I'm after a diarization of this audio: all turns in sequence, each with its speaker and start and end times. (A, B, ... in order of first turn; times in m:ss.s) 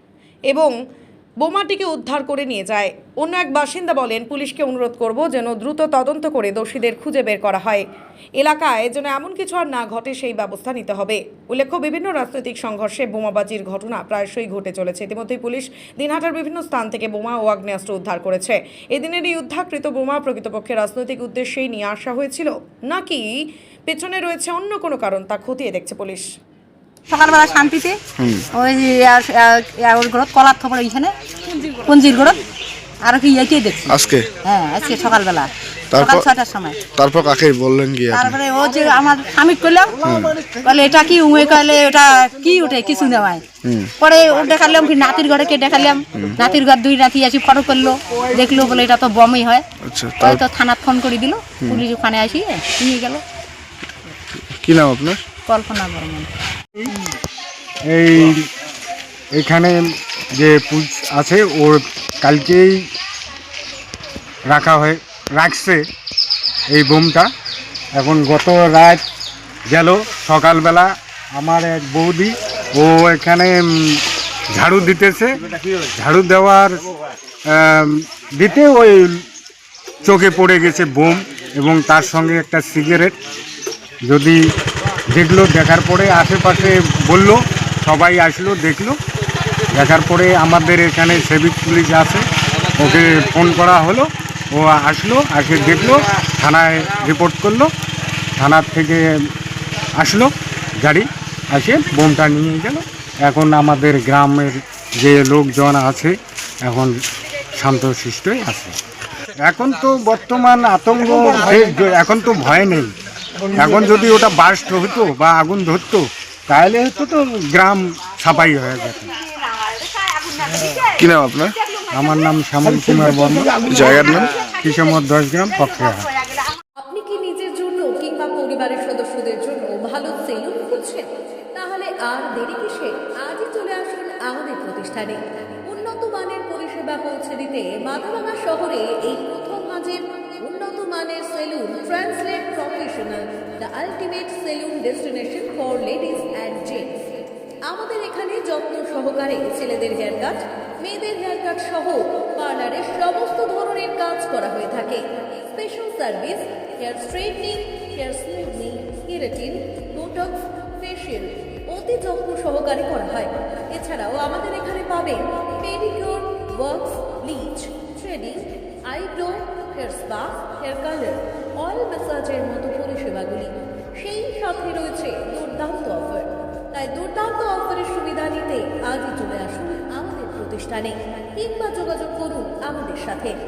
0:00.5-0:00.7 A
0:01.4-0:07.8 A
0:08.4-0:23.2 A
0:23.9-0:26.3 A
0:27.1-0:28.0 B
0:28.2-0:28.5 C
0:28.5-0:31.1 B
0:31.9-0:32.4 B
0:33.0-0:36.9 B
0:33.9-0:34.4 C
0:35.9-0:36.3 C
0:36.9-0:38.4 C
0:38.1-0:49.6 B
0:40.0-0:40.5 C
0:43.5-0:43.9 C
0:46.1-0:46.4 C
0:49.8-0:50.4 C
0:50.2-0:53.2 B
0:51.6-0:51.8 C
0:54.3-0:55.3 C
0:55.4-0:56.3 B
0:57.9-0:58.4 D
0:59.4-0:59.8 D
1:00.4-1:02.8 D
1:04.5-1:05.8 D
1:06.7-1:07.3 D
1:08.0-1:09.0 D
1:09.7-1:14.0 D
1:14.5-1:15.4 D
1:15.9-1:16.8 D
1:17.5-1:19.2 D
1:20.0-1:23.2 D
1:24.1-1:24.4 D
1:25.1-1:29.0 D
1:29.8-1:32.2 D
1:32.8-1:37.7 D
1:38.4-1:39.1 D
1:40.0-1:40.3 D
1:40.8-1:46.9 D
1:47.6-1:48.8 D
1:49.4-1:52.9 D
1:53.5-1:59.1 D
2:01.0-2:01.6 C
2:01.9-2:06.1 D
2:03.7-2:04.3 C
2:06.8-2:27.0 E
2:27.7-3:03.3 E